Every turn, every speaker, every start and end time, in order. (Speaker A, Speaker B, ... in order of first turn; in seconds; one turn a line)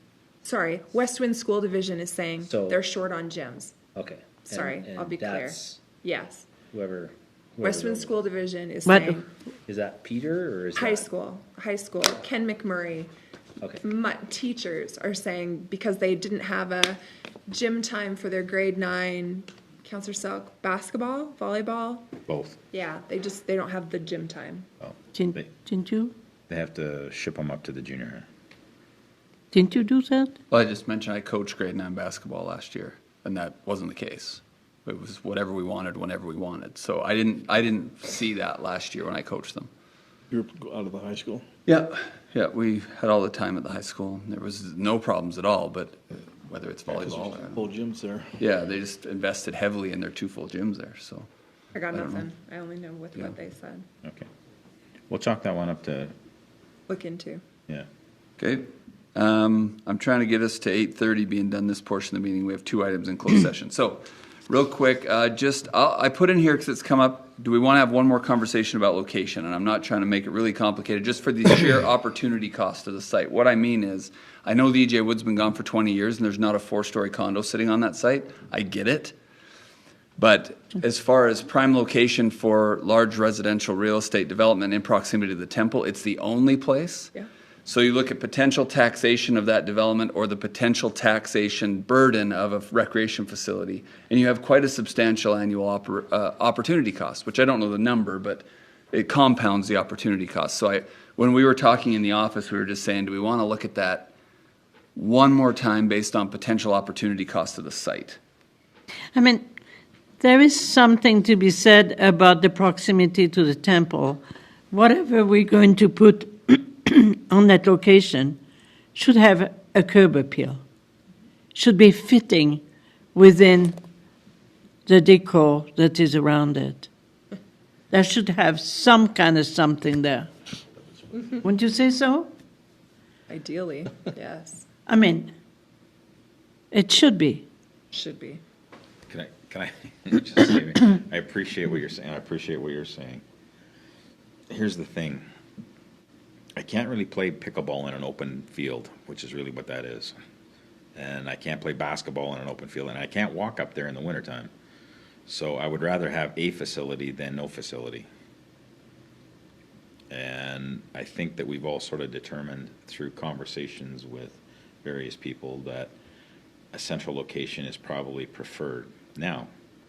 Speaker A: 0.4-3.8
Speaker B: 2.4-2.8
Speaker B: 4.0-5.8
Speaker A: 4.5-6.5
Speaker B: 6.7-8.1
Speaker A: 7.6-9.3
Speaker C: 8.9-9.2
Speaker B: 9.7-11.1
Speaker A: 10.8-13.1
Speaker A: 13.8-22.1
Speaker D: 22.3-22.6
Speaker A: 22.7-24.7
Speaker D: 24.8-25.5
Speaker C: 25.1-26.1
Speaker D: 26.5-28.3
Speaker C: 29.5-30.4
Speaker E: 30.5-39.7
Speaker F: 40.3-41.5
Speaker E: 41.7-47.6
Speaker F: 46.9-48.5
Speaker E: 48.4-51.3
Speaker A: 51.7-53.9
Speaker E: 51.9-52.3
Speaker D: 55.1-56.1
Speaker A: 56.9-57.4
Speaker E: 58.4-79.2
Speaker E: 80.2-87.1
Speaker E: 87.7-104.1
Speaker E: 105.0-108.2
Speaker C: 109.2-109.5
Speaker C: 110.2-118.4
Speaker C: 119.0-120.6
Speaker C: 121.5-122.6
Speaker C: 123.2-123.8
Speaker C: 124.9-126.9
Speaker C: 127.9-130.3
Speaker C: 131.4-132.3
Speaker A: 133.3-134.7
Speaker C: 134.9-135.3
Speaker C: 136.7-137.5
Speaker A: 137.9-138.4
Speaker D: 139.1-143.2
Speaker D: 144.5-145.2
Speaker D: 146.6-150.2
Speaker D: 151.0-154.5
Speaker D: 155.3-158.1
Speaker D: 160.1-165.9
Speaker D: 166.7-169.5